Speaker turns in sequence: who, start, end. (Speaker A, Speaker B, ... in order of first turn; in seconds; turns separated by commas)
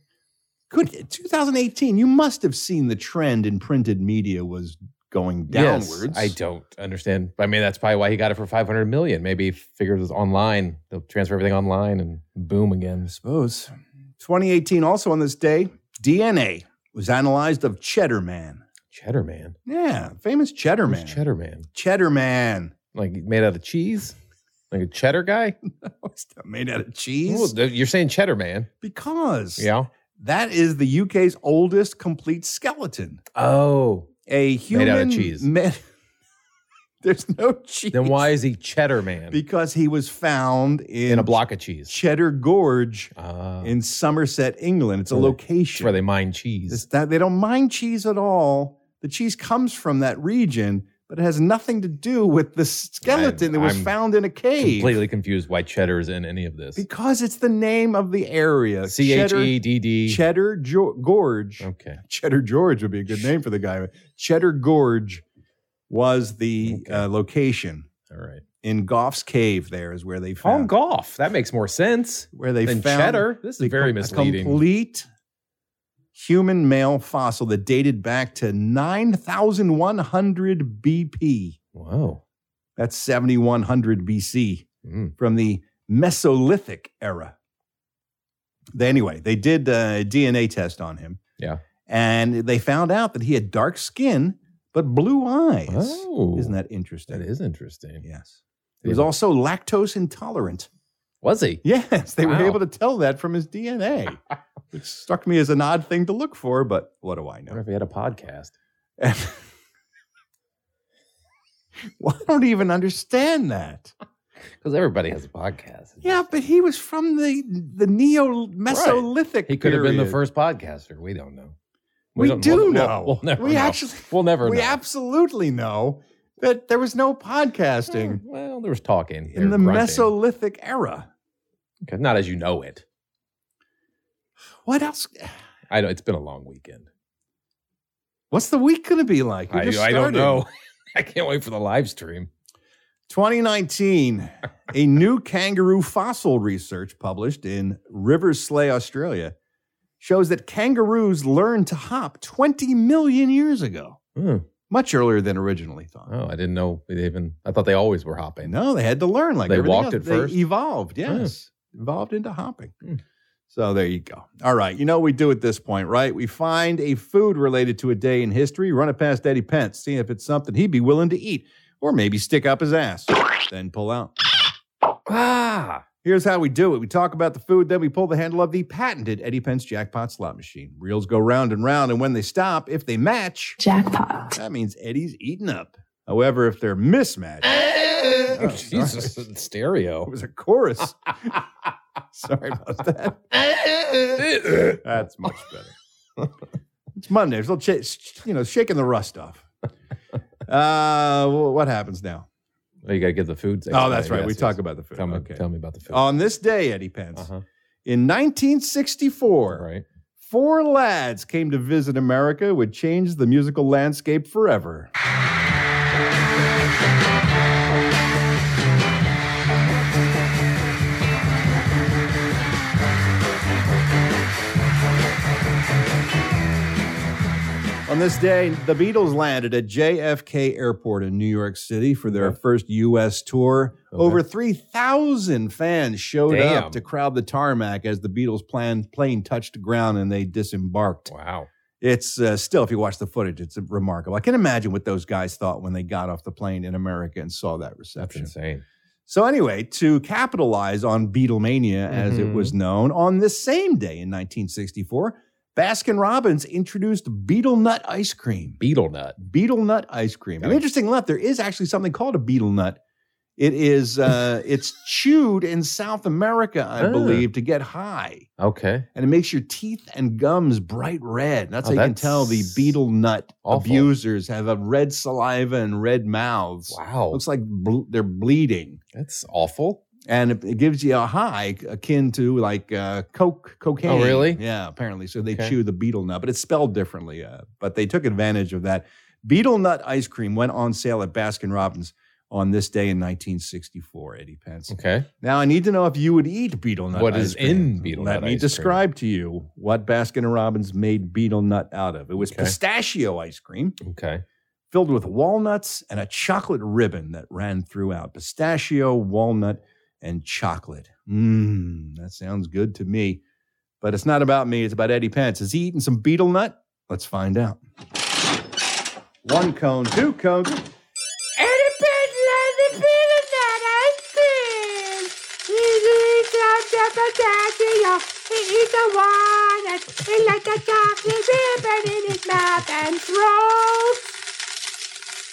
Speaker A: 0.7-6.3, Speaker B: 5.5-13.1, Speaker A: 13.1-18.6, Speaker B: 18.9-19.6, Speaker A: 19.6-21.2, Speaker B: 20.9-21.7, Speaker A: 21.7-22.7, Speaker B: 22.9-24.1, Speaker B: 24.7-25.6, Speaker A: 25.8-27.5, Speaker B: 27.3-28.7, Speaker A: 28.8-33.2, Speaker B: 29.6-29.9, Speaker B: 33.3-34.1, Speaker A: 34.3-35.8, Speaker B: 34.7-35.5, Speaker A: 37.0-38.3, Speaker B: 37.9-39.4, Speaker A: 39.3-41.4, Speaker B: 41.1-42.0, Speaker A: 41.9-46.0, Speaker B: 43.1-43.7, Speaker B: 45.1-46.8, Speaker A: 46.7-55.0, Speaker B: 53.0-53.9, Speaker B: 54.6-56.8, Speaker A: 56.8-65.2, Speaker B: 58.9-60.2, Speaker B: 61.6-62.0, Speaker A: 65.9-67.9, Speaker B: 66.6-67.0, Speaker B: 68.1-68.4, Speaker A: 68.6-70.7, Speaker B: 70.4-74.6, Speaker A: 72.3-75.1, Speaker A: 76.1-81.6, Speaker B: 81.7-82.2, Speaker A: 82.8-87.3, Speaker B: 84.8-85.1, Speaker A: 88.7-91.2, Speaker A: 91.9-97.2, Speaker B: 95.7-96.5, Speaker B: 97.1-98.0, Speaker A: 98.0-100.7, Speaker B: 101.2-101.6, Speaker A: 101.6-104.2, Speaker B: 102.2-102.6, Speaker A: 104.7-107.6, Speaker B: 107.5-108.5, Speaker A: 109.0-109.4, Speaker A: 112.0-113.9, Speaker B: 114.6-116.3, Speaker A: 116.0-120.2, Speaker B: 118.7-121.5, Speaker B: 122.1-124.8, Speaker A: 122.2-128.2, Speaker B: 127.9-130.1, Speaker A: 129.3-131.1, Speaker B: 131.8-132.8, Speaker A: 134.6-135.3, Speaker B: 135.7-136.9, Speaker A: 138.3-140.4, Speaker B: 139.5-142.3, Speaker A: 143.1-149.3, Speaker A: 150.0-154.0, Speaker B: 154.2-154.4, Speaker A: 154.7-156.1, Speaker B: 156.1-158.5, Speaker A: 158.4-162.7, Speaker B: 159.5-160.4, Speaker B: 161.1-161.3, Speaker A: 163.5-174.1, Speaker B: 175.1-175.8, Speaker A: 176.0-183.6, Speaker A: 184.3-187.6, Speaker B: 187.5-190.1, Speaker A: 188.2-189.2, Speaker A: 190.1-191.1, Speaker A: 192.1-193.2, Speaker B: 193.9-194.8, Speaker A: 194.8-195.7, Speaker A: 196.9-199.4, Speaker A: 200.5-202.2, Speaker B: 202.8-206.1, Speaker A: 203.7-207.3, Speaker B: 207.2-207.4, Speaker A: 207.8-209.6, Speaker B: 209.5-209.8, Speaker A: 210.2-214.9, Speaker A: 227.9-241.1, Speaker B: 232.1-232.4, Speaker B: 233.9-234.2, Speaker B: 236.3-236.8, Speaker B: 241.1-241.5, Speaker A: 241.8-248.3, Speaker B: 248.0-248.6, Speaker A: 249.1-258.6, Speaker B: 251.9-252.5, Speaker B: 258.6-259.2, Speaker A: 259.2-262.8, Speaker A: 263.4-268.3, Speaker B: 266.8-267.2, Speaker B: 268.4-268.9, Speaker A: 268.9-278.8, Speaker B: 271.6-272.8, Speaker B: 273.4-273.9, Speaker B: 276.7-277.2, Speaker B: 278.9-279.8, Speaker A: 280.1-303.8, Speaker B: 283.9-284.4, Speaker B: 285.2-285.6, Speaker B: 294.7-295.1, Speaker B: 296.9-298.8, Speaker B: 302.2-302.5, Speaker B: 303.8-304.2, Speaker A: 304.7-313.2, Speaker A: 313.8-317.6, Speaker A: 319.2-320.6, Speaker C: 321.4-334.0